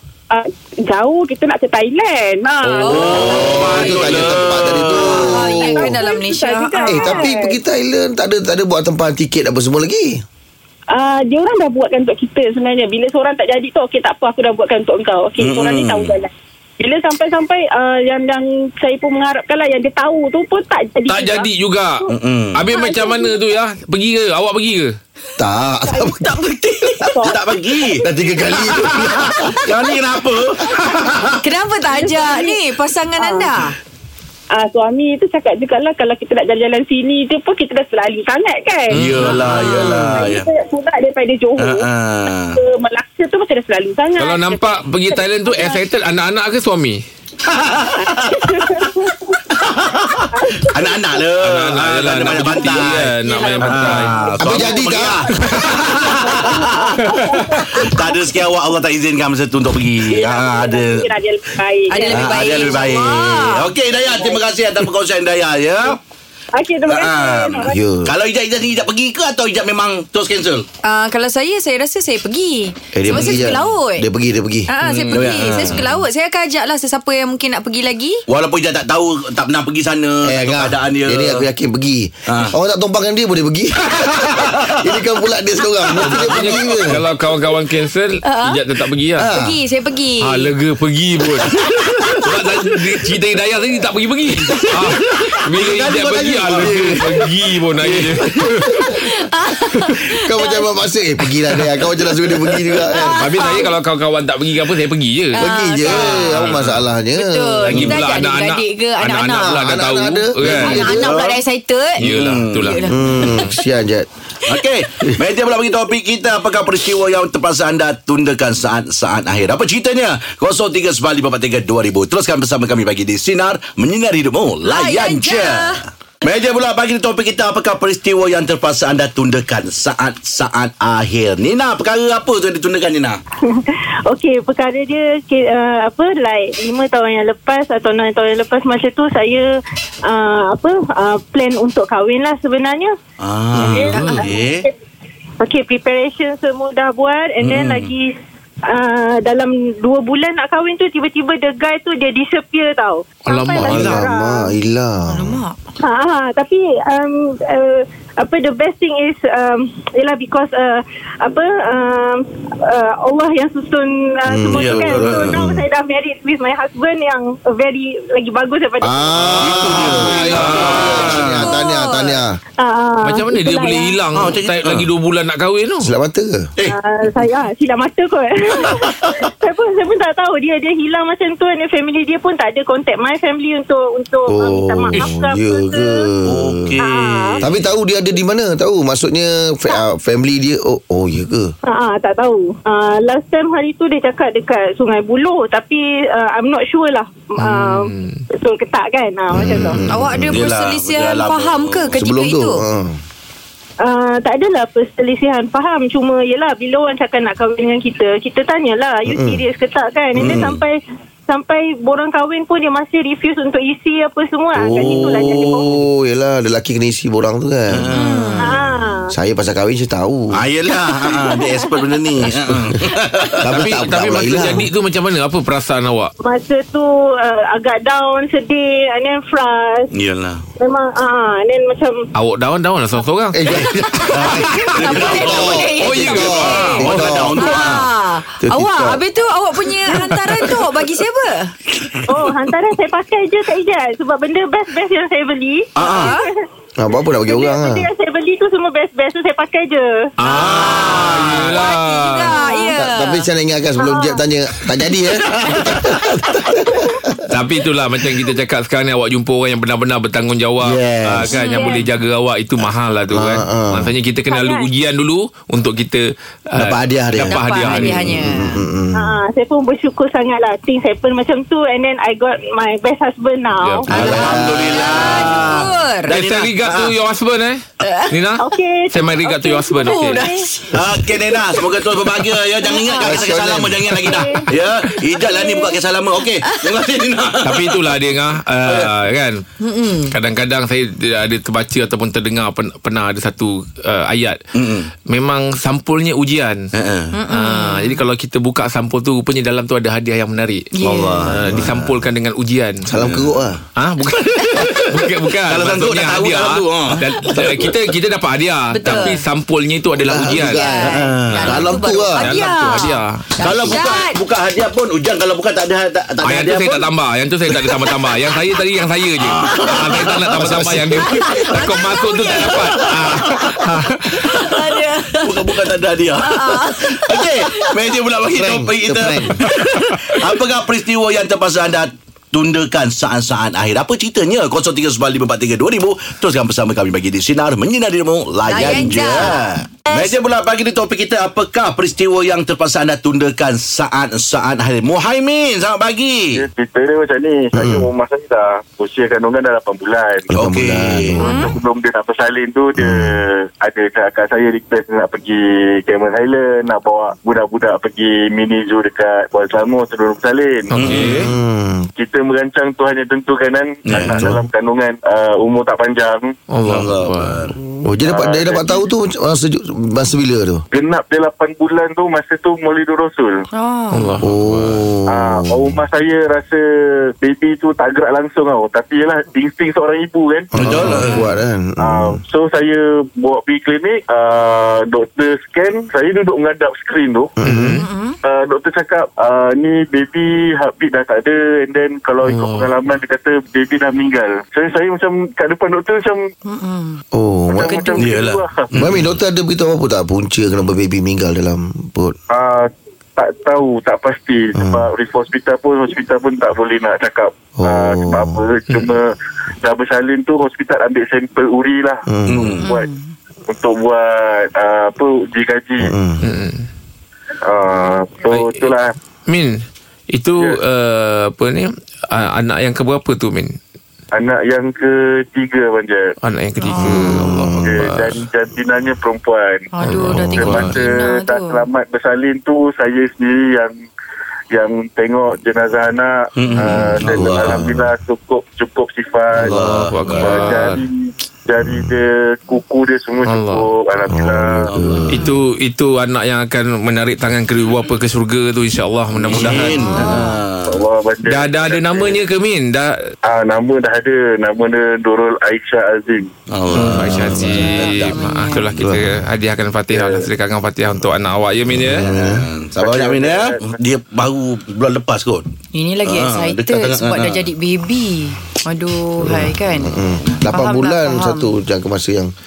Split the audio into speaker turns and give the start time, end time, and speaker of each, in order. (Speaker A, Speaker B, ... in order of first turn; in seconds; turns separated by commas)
Speaker A: 0.3-4.0, Speaker B: 2.7-5.1, Speaker C: 2.8-6.0, Speaker D: 3.9-5.0, Speaker A: 5.1-7.6, Speaker E: 5.2-7.3, Speaker C: 6.8-10.2, Speaker A: 10.9-22.1, Speaker D: 15.4-16.1, Speaker B: 21.1-24.9, Speaker D: 22.1-22.6, Speaker A: 22.7-23.5, Speaker C: 25.4-26.4, Speaker A: 25.9-28.7, Speaker C: 27.0-27.3, Speaker D: 27.2-28.1, Speaker C: 28.0-29.7, Speaker D: 28.7-31.4, Speaker E: 31.4-33.8, Speaker A: 31.9-32.6, Speaker A: 33.2-33.6, Speaker A: 34.5-45.8, Speaker D: 38.9-40.5, Speaker B: 38.9-39.9, Speaker D: 41.6-42.6, Speaker B: 44.2-47.0, Speaker D: 47.4-48.9, Speaker A: 48.0-49.4, Speaker D: 49.5-57.0, Speaker A: 50.3-51.2, Speaker B: 51.4-54.6, Speaker A: 52.4-55.0, Speaker C: 54.4-55.4, Speaker A: 56.0-58.7, Speaker B: 57.0-57.4, Speaker D: 57.8-61.1, Speaker A: 60.0-62.9, Speaker E: 61.9-63.7, Speaker D: 62.1-66.0, Speaker A: 64.0-64.4, Speaker A: 66.5-67.8, Speaker D: 66.9-70.7, Speaker C: 67.6-68.1, Speaker E: 70.8-74.0, Speaker C: 72.9-74.7, Speaker D: 73.1-73.5, Speaker E: 74.7-78.2, Speaker D: 75.0-75.8, Speaker D: 78.3-81.5, Speaker C: 80.2-87.0, Speaker D: 82.3-82.5, Speaker D: 83.9-84.7, Speaker B: 86.0-89.3, Speaker E: 88.2-88.6, Speaker C: 89.2-89.6, Speaker E: 89.3-90.5, Speaker B: 90.2-98.8, Speaker C: 91.6-92.3, Speaker D: 94.8-97.1, Speaker C: 96.6-97.1, Speaker D: 97.8-98.4, Speaker E: 98.7-100.7, Speaker C: 100.2-103.3, Speaker B: 101.3-101.7, Speaker B: 102.8-106.9, Speaker E: 102.9-103.7, Speaker C: 105.3-108.0, Speaker E: 105.4-106.5, Speaker E: 107.2-109.6, Speaker B: 107.6-110.9, Speaker C: 109.3-111.2, Speaker E: 110.5-112.0, Speaker D: 110.6-111.4, Speaker D: 112.0-112.8, Speaker B: 112.0-113.5, Speaker E: 112.7-113.5, Speaker C: 112.9-114.1, Speaker D: 114.5-133.2, Speaker E: 124.6-125.8, Speaker A: 133.6-139.5, Speaker A: 140.1-142.9, Speaker D: 143.2-144.7, Speaker A: 143.6-144.7, Speaker B: 143.8-144.3, Speaker A: 145.4-148.1, Speaker D: 147.4-147.9, Speaker A: 148.7-154.5, Speaker B: 153.2-154.0, Speaker C: 153.6-155.4, Speaker E: 155.1-155.5, Speaker A: 155.8-169.1, Speaker C: 164.2-165.7, Speaker D: 164.5-165.4, Speaker C: 168.8-172.3, Speaker B: 169.1-171.4, Speaker D: 169.4-171.5, Speaker E: 170.2-172.2, Speaker A: 172.6-174.0, Speaker B: 173.0-175.9, Speaker D: 174.1-174.9, Speaker C: 175.8-176.5, Speaker D: 176.6-177.2, Speaker A: 176.7-186.0, Speaker D: 178.5-179.3, Speaker C: 184.3-186.6, Speaker D: 186.2-187.7, Speaker A: 186.9-187.4, Speaker C: 187.4-191.5, Speaker A: 191.7-199.8, Speaker B: 197.4-198.2, Speaker C: 199.3-200.4, Speaker E: 199.8-202.6, Speaker D: 200.3-202.0, Speaker C: 202.0-203.0, Speaker A: 203.8-210.8, Speaker C: 209.1-209.4, Speaker D: 210.1-210.6, Speaker C: 210.2-210.5, Speaker A: 211.3-215.8, Speaker C: 214.5-217.9, Speaker D: 217.7-218.2, Speaker E: 217.9-218.5, Speaker A: 218.4-219.1, Speaker C: 218.6-220.4, Speaker D: 220.3-223.8, Speaker A: 221.3-222.0, Speaker C: 222.5-222.7, Speaker C: 223.4-224.7, Speaker B: 223.5-226.1, Speaker A: 226.2-229.8, Speaker D: 229.9-230.4, Speaker A: 230.6-232.0, Speaker B: 232.1-233.5, Speaker C: 233.3-237.5, Speaker D: 233.4-237.9, Speaker E: 234.6-236.8, Speaker B: 235.8-237.1, Speaker E: 237.4-241.5, Speaker C: 238.4-239.0, Speaker A: 242.1-246.4, Speaker D: 245.8-246.2, Speaker E: 245.8-246.3, Speaker C: 246.8-247.9, Speaker A: 247.3-249.9, Speaker B: 250.2-252.3, Speaker E: 250.2-253.3, Speaker D: 250.3-251.6, Speaker A: 252.3-252.7, Speaker C: 252.8-257.2, Speaker A: 253.8-254.2, Speaker D: 255.3-256.4, Speaker B: 257.3-268.1, Speaker D: 260.6-261.1, Speaker A: 261.2-261.9, Speaker E: 261.2-261.8, Speaker C: 263.1-263.9, Speaker A: 264.3-264.7, Speaker C: 266.6-269.2, Speaker E: 267.3-268.6, Speaker A: 268.9-274.2, Speaker B: 273.6-274.3, Speaker C: 273.9-274.9, Speaker E: 273.9-276.1, Speaker D: 274.0-276.9, Speaker B: 274.9-275.4, Speaker B: 276.1-280.2, Speaker E: 277.8-278.1, Speaker A: 278.4-280.5, Speaker E: 279.8-281.7, Speaker D: 280.7-288.0, Speaker A: 282.6-283.3, Speaker C: 282.9-284.2, Speaker A: 284.0-284.4, Speaker E: 285.1-285.6, Speaker A: 285.2-285.5, Speaker E: 286.4-286.9, Speaker B: 287.4-289.4, Speaker D: 288.6-288.9, Speaker E: 289.6-290.1, Speaker B: 290.1-294.4, Speaker D: 294.6-294.9, Speaker B: 295.1-296.6, Speaker D: 296.8-297.1, Speaker E: 297.1-298.0, Speaker B: 297.3-300.7, Speaker E: 300.7-301.3, Speaker D: 300.8-301.9, Speaker B: 301.2-302.8, Speaker C: 302.9-303.6, Speaker D: 302.9-303.5, Speaker B: 303.8-310.7, Speaker D: 304.6-307.8, Speaker E: 308.7-309.2, Speaker C: 310.0-312.3, Speaker E: 310.3-314.2, Speaker D: 310.8-311.7, Speaker B: 311.3-311.6, Speaker B: 312.1-313.3, Speaker D: 313.4-316.9, Speaker B: 316.2-324.4, Speaker D: 317.4-318.3, Speaker D: 319.2-321.0, Speaker C: 320.4-321.0, Speaker E: 321.0-323.5, Speaker D: 322.3-323.1, Speaker E: 324.2-325.6, Speaker D: 325.2-346.4, Speaker E: 326.1-327.8, Speaker C: 328.3-329.4, Speaker E: 338.4-340.1, Speaker F: 346.4-350.3, Speaker C: 347.5-347.9, Speaker C: 350.3-351.6, Speaker D: 350.3-351.3, Speaker E: 351.2-351.6, Speaker F: 351.2-360.9, Speaker C: 352.8-353.1, Speaker B: 360.7-361.3, Speaker D: 360.7-361.3, Speaker C: 361.1-361.9, Speaker F: 362.0-366.3, Speaker D: 363.9-364.2, Speaker C: 364.0-364.4, Speaker B: 366.5-367.5, Speaker D: 366.6-367.6, Speaker C: 367.6-370.6, Speaker F: 368.0-368.8, Speaker F: 370.7-373.4, Speaker E: 373.5-374.1, Speaker B: 373.9-374.9, Speaker C: 374.2-375.8, Speaker F: 375.1-376.6, Speaker F: 377.2-380.8, Speaker C: 380.5-382.2, Speaker D: 380.5-381.3, Speaker B: 380.9-381.2, Speaker F: 381.8-387.3, Speaker C: 387.4-387.8, Speaker B: 387.4-387.9, Speaker E: 387.8-388.2, Speaker F: 388.2-396.2, Speaker B: 392.2-392.7, Speaker E: 396.5-397.0, Speaker C: 397.1-397.8, Speaker F: 397.5-398.6, Speaker E: 397.6-398.1, Speaker D: 398.0-399.2, Speaker C: 398.8-402.1, Speaker F: 402.3-409.1, Speaker C: 404.6-404.9, Speaker C: 407.6-408.4, Speaker F: 409.6-412.0, Speaker C: 412.1-412.6, Speaker D: 412.3-412.6, Speaker E: 412.6-413.0, Speaker F: 413.5-415.9, Speaker C: 415.8-416.3, Speaker B: 416.2-416.6, Speaker F: 417.4-418.9, Speaker B: 418.3-418.7, Speaker B: 419.3-419.6, Speaker B: 420.1-423.6, Speaker F: 424.1-426.1, Speaker B: 426.2-428.1, Speaker E: 426.6-427.1, Speaker C: 426.7-427.9, Speaker F: 427.6-429.7, Speaker E: 429.7-431.6, Speaker B: 429.8-430.8, Speaker C: 430.1-430.4, Speaker F: 430.3-433.7, Speaker F: 434.5-439.5, Speaker D: 436.4-437.7, Speaker C: 436.7-437.9, Speaker D: 439.4-440.4, Speaker C: 439.4-439.9, Speaker B: 439.9-440.8, Speaker F: 440.2-444.7, Speaker C: 441.6-441.9, Speaker B: 443.2-443.7, Speaker C: 444.1-445.3, Speaker D: 444.7-445.2, Speaker B: 445.1-450.3, Speaker D: 449.1-450.8, Speaker E: 449.9-450.2, Speaker F: 450.6-452.2, Speaker B: 451.2-452.9, Speaker F: 453.2-456.3, Speaker D: 456.5-458.3, Speaker B: 456.7-462.1, Speaker C: 456.8-457.6, Speaker E: 457.4-458.7, Speaker C: 458.8-459.2, Speaker F: 459.9-460.2, Speaker C: 461.7-462.5, Speaker D: 462.1-465.5, Speaker F: 462.8-463.8, Speaker E: 465.7-469.9, Speaker D: 466.0-467.5, Speaker C: 469.2-472.3, Speaker E: 470.5-471.5